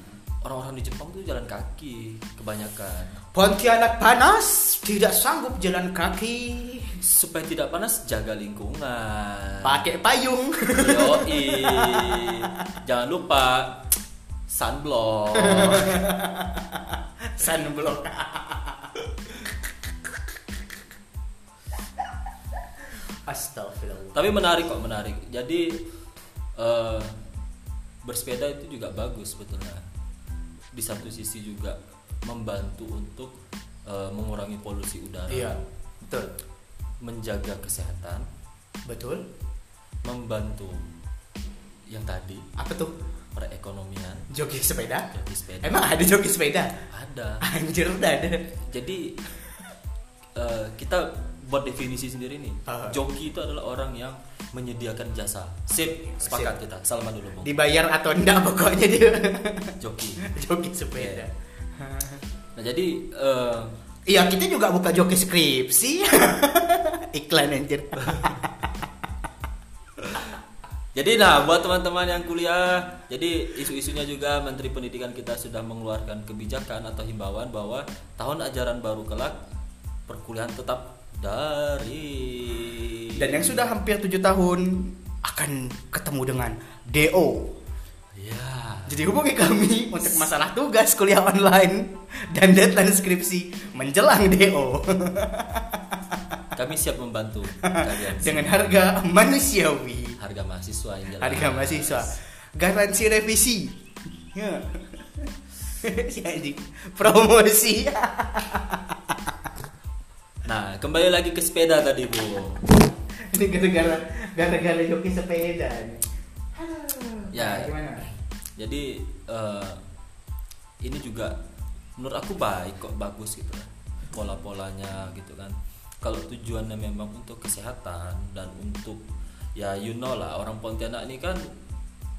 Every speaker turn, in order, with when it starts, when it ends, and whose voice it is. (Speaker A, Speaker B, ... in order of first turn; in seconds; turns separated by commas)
Speaker A: 0.4-3.2, Speaker B: 3.3-7.0, Speaker A: 7.0-9.9, Speaker B: 9.6-12.6, Speaker A: 10.8-13.9, Speaker A: 14.5-16.0, Speaker B: 15.3-19.5, Speaker B: 23.3-24.2, Speaker A: 24.1-25.8, Speaker A: 26.6-27.1, Speaker A: 28.0-29.8, Speaker A: 30.7-33.4, Speaker A: 33.9-35.7, Speaker B: 35.3-36.3, Speaker A: 37.0-38.3, Speaker B: 38.9-39.2, Speaker A: 40.0-40.8, Speaker A: 41.9-42.5, Speaker B: 42.6-42.9, Speaker A: 43.4-44.3, Speaker B: 44.3-45.1, Speaker A: 45.1-45.9, Speaker B: 45.6-46.8, Speaker A: 46.9-47.4, Speaker B: 47.4-48.5, Speaker A: 48.6-49.2, Speaker A: 50.4-57.5, Speaker B: 52.7-53.0, Speaker B: 55.8-56.6, Speaker B: 57.4-62.2, Speaker A: 59.8-60.3, Speaker A: 61.0-61.3, Speaker A: 62.5-63.7, Speaker B: 64.1-68.8, Speaker A: 68.0-68.4, Speaker A: 70.0-70.3, Speaker A: 71.0-79.4, Speaker A: 80.1-83.7, Speaker B: 83.2-87.5, Speaker A: 88.2-89.0, Speaker B: 88.9-96.0, Speaker A: 96.5-98.7, Speaker B: 97.6-100.2, Speaker A: 100.2-102.1, Speaker B: 101.2-103.8, Speaker B: 104.3-109.3, Speaker A: 110.4-112.7, Speaker B: 113.3-116.0, Speaker B: 116.5-118.1, Speaker A: 117.3-119.8, Speaker A: 120.8-121.4, Speaker A: 122.0-129.0, Speaker A: 129.6-131.4